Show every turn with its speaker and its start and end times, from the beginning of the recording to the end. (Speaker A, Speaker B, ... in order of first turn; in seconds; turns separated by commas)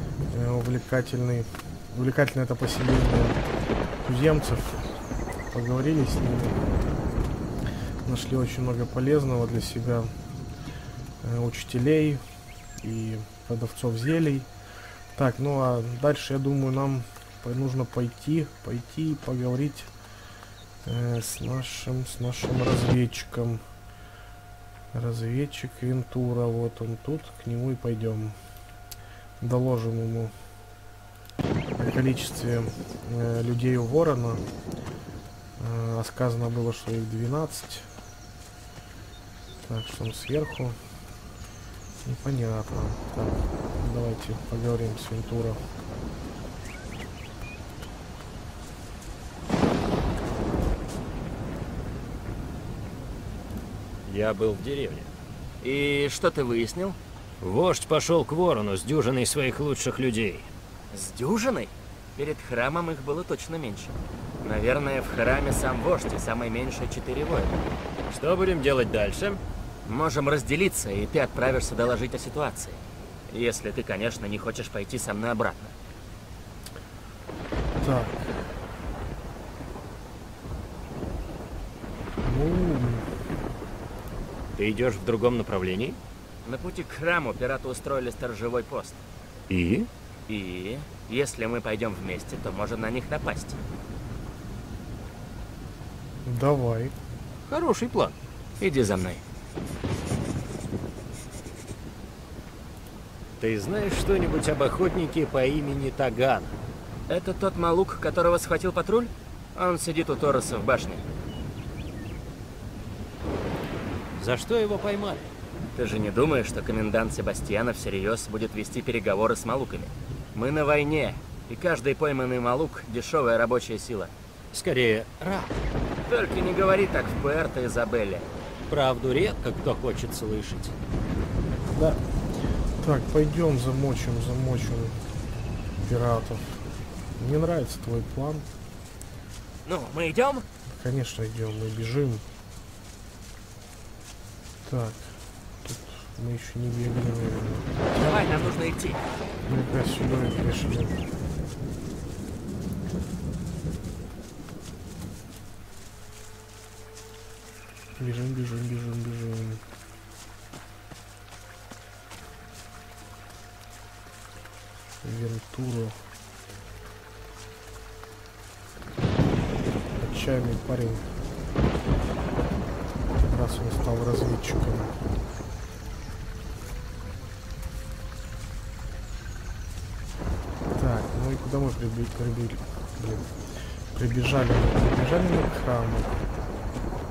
Speaker A: 0.3-3.4, Speaker A: 4.0-4.9, Speaker A: 5.5-6.6, Speaker A: 8.1-10.1, Speaker A: 11.2-12.2, Speaker A: 12.8-14.5, Speaker A: 15.2-19.9, Speaker A: 20.9-23.6, Speaker A: 24.9-28.4, Speaker A: 29.4-30.3, Speaker A: 31.8-34.4, Speaker A: 35.6-37.9, Speaker A: 39.6-40.8, Speaker A: 42.0-45.6, Speaker B: 54.1-55.1, Speaker C: 55.6-57.0, Speaker B: 57.4-60.5, Speaker C: 60.9-67.7, Speaker B: 68.1-69.4, Speaker C: 69.9-72.8, Speaker C: 73.3-75.7, Speaker A: 77.8-78.5, Speaker A: 82.2-83.1, Speaker B: 84.6-86.0, Speaker C: 86.5-89.0, Speaker B: 89.5-89.9, Speaker C: 90.3-93.6, Speaker A: 96.2-97.0, Speaker B: 97.5-98.2, Speaker C: 98.6-99.2, Speaker B: 103.4-106.6, Speaker C: 107.1-111.0, Speaker B: 114.2-115.3, Speaker C: 115.8-124.1, Speaker B: 124.5-125.6, Speaker C: 126.1-128.3, Speaker B: 128.7-130.7, Speaker A: 131.7-132.0, Speaker A: 132.8-135.0, Speaker A: 135.8-136.6, Speaker A: 137.2-138.5, Speaker C: 139.7-140.4, Speaker A: 140.7-142.2, Speaker A: 144.7-148.6, Speaker C: 147.9-149.0, Speaker A: 149.4-151.0, Speaker A: 158.0-159.6, Speaker A: 165.0-166.0, Speaker A: 170.0-171.1, Speaker A: 173.2-174.9, Speaker A: 180.8-183.3, Speaker A: 183.9-186.2